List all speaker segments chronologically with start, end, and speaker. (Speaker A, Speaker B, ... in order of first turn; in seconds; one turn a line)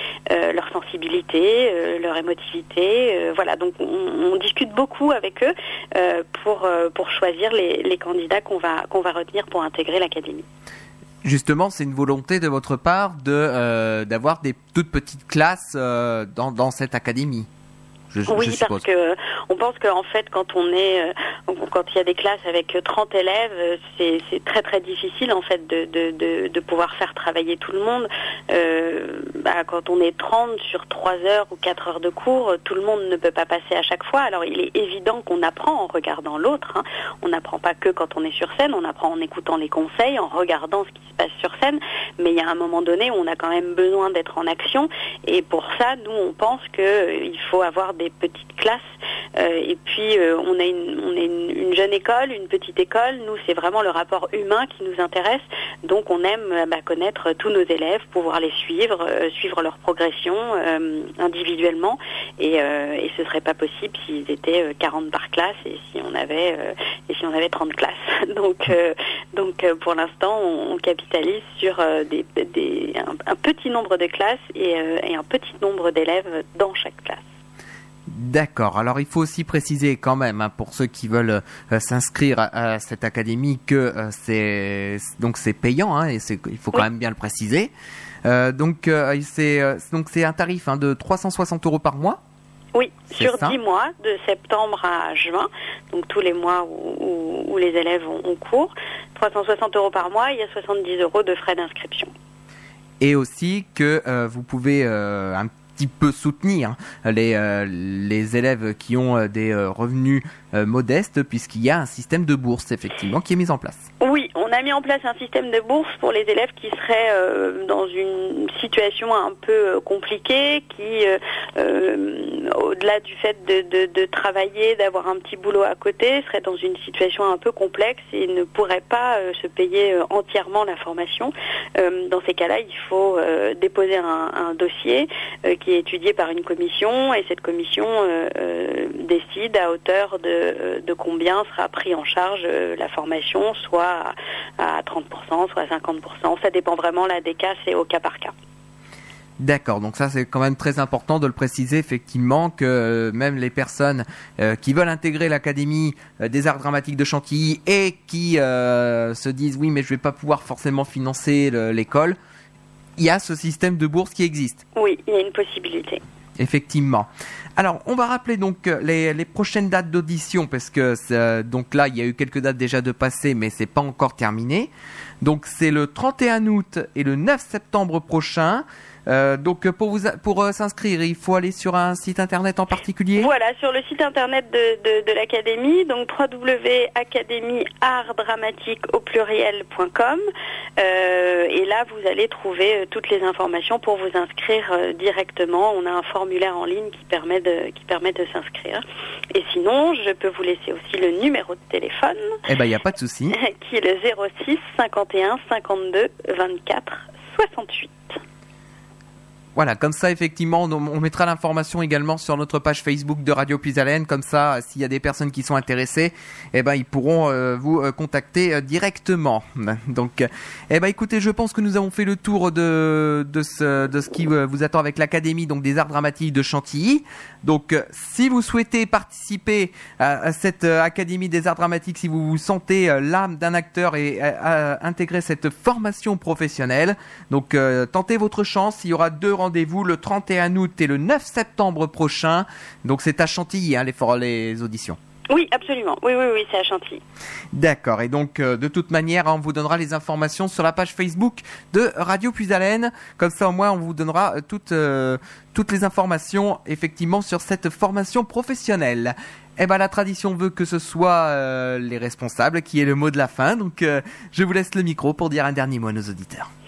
Speaker A: 0.3-10.4
Speaker B: 11.2-17.5
Speaker B: 18.1-18.8
Speaker A: 18.3-48.8
Speaker A: 49.4-77.2
Speaker B: 78.1-87.7
Speaker B: 88.2-92.2
Speaker A: 92.7-102.1
Speaker B: 93.1-93.5
Speaker B: 103.0-113.8
Speaker A: 114.0-148.3
Speaker B: 149.4-162.2
Speaker B: 163.0-164.6
Speaker A: 164.8-166.0
Speaker B: 166.4-174.7
Speaker B: 175.2-183.3
Speaker A: 183.2-190.2
Speaker A: 190.8-202.3
Speaker B: 202.5-203.3
Speaker A: 203.3-208.2
Speaker B: 209.6-245.0
Speaker A: 245.3-247.0
Speaker B: 247.5-266.5